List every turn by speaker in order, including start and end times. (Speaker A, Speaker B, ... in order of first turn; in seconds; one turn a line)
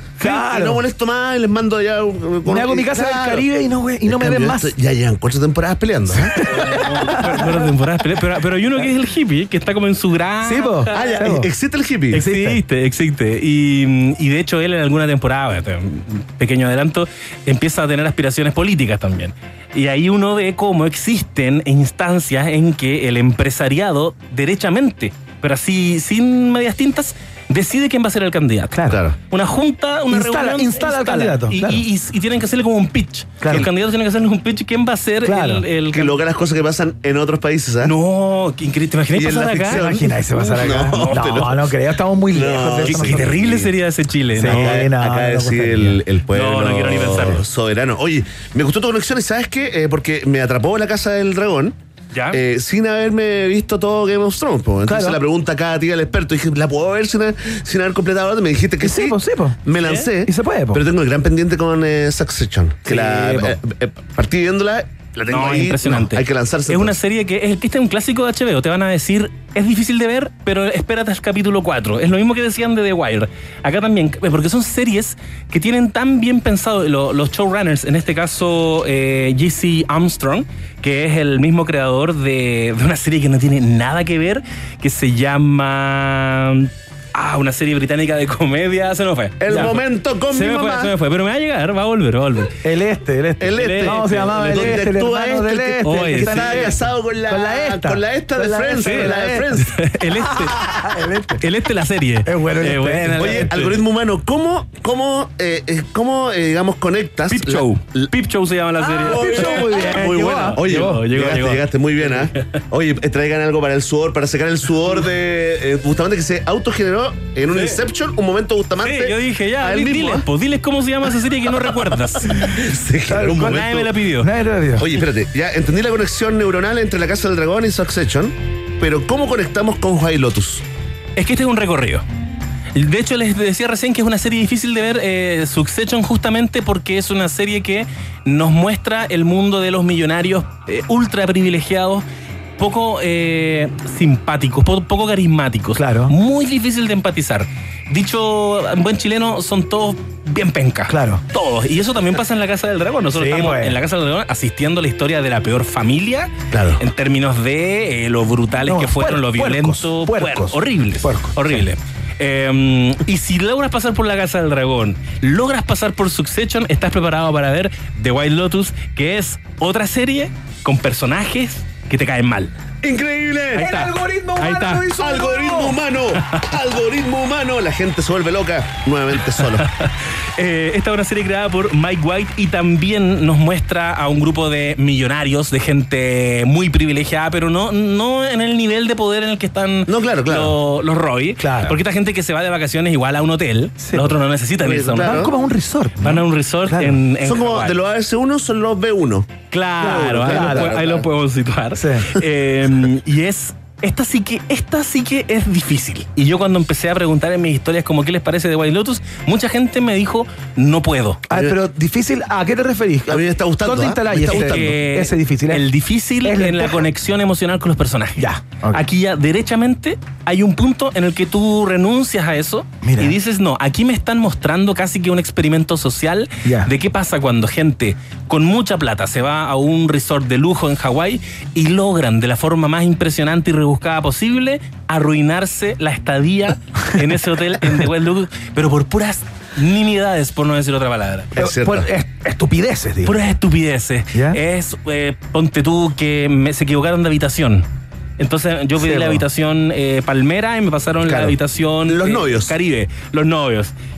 Speaker A: 0.2-0.8
Speaker B: 0.2-3.5
Speaker A: 2.5-4.7
Speaker B: 4.1-7.1
Speaker A: 6.3-7.5
Speaker C: 6.5-11.3
Speaker A: 10.4-11.5
Speaker B: 10.9-12.2
Speaker A: 12.1-12.6
Speaker C: 12.1-36.2
Speaker A: 28.7-29.0
Speaker B: 28.9-29.2
Speaker A: 30.1-31.8
Speaker A: 33.4-33.7
Speaker A: 35.2-35.6
Speaker B: 35.9-37.9
Speaker C: 37.8-39.8
Speaker B: 39.1-41.6
Speaker A: 39.7-43.4
Speaker C: 40.4-41.5
Speaker B: 42.3-43.7
Speaker C: 42.9-44.9
Speaker A: 44.4-46.0
Speaker B: 44.4-51.8
Speaker C: 46.3-47.4
Speaker C: 52.1-52.4
Speaker B: 52.3-67.0
Speaker A: 54.9-55.2
Speaker A: 58.8-59.6
Speaker C: 59.8-60.1
Speaker A: 60.3-60.8
Speaker A: 62.9-63.5
Speaker C: 65.3-92.5
Speaker B: 89.4-90.9
Speaker A: 92.6-99.5
Speaker B: 93.4-99.8
Speaker C: 93.5-94.8
Speaker C: 95.8-96.8
Speaker C: 98.8-100.7
Speaker A: 100.2-101.4
Speaker C: 101.4-103.8
Speaker A: 102.2-103.5
Speaker B: 103.2-108.1
Speaker C: 107.3-112.5
Speaker A: 108.8-111.0
Speaker B: 109.1-120.3
Speaker C: 117.5-117.8
Speaker C: 118.8-122.6
Speaker B: 121.6-123.9
Speaker A: 123.1-123.6
Speaker C: 123.1-124.3
Speaker A: 124.2-124.8
Speaker B: 124.8-130.6
Speaker C: 131.2-132.0
Speaker C: 132.8-142.1
Speaker C: 142.6-172.5
Speaker A: 145.7-146.2
Speaker A: 150.9-151.2
Speaker A: 153.1-153.8
Speaker B: 156.5-156.8
Speaker A: 158.7-161.6
Speaker B: 172.8-173.7
Speaker A: 173.6-175.8
Speaker C: 173.6-174.8
Speaker B: 175.0-179.7
Speaker C: 176.2-176.5
Speaker C: 179.4-195.3
Speaker B: 189.9-190.6
Speaker A: 191.4-191.8
Speaker A: 193.8-194.1
Speaker B: 194.6-195.3
Speaker A: 195.0-197.0
Speaker C: 196.0-197.8
Speaker B: 197.2-201.1
Speaker C: 199.5-211.2
Speaker A: 199.8-200.7
Speaker A: 201.8-202.1
Speaker A: 211.3-215.7
Speaker B: 211.3-211.6
Speaker B: 213.1-214.8
Speaker C: 214.1-241.4
Speaker A: 216.2-216.9
Speaker A: 218.2-218.8
Speaker A: 222.8-223.2
Speaker A: 226.4-226.7
Speaker B: 241.4-241.9
Speaker A: 241.4-243.2
Speaker C: 243.1-247.7
Speaker A: 244.1-244.4
Speaker C: 248.2-253.7
Speaker A: 248.8-249.2
Speaker B: 251.0-251.3
Speaker B: 251.9-252.5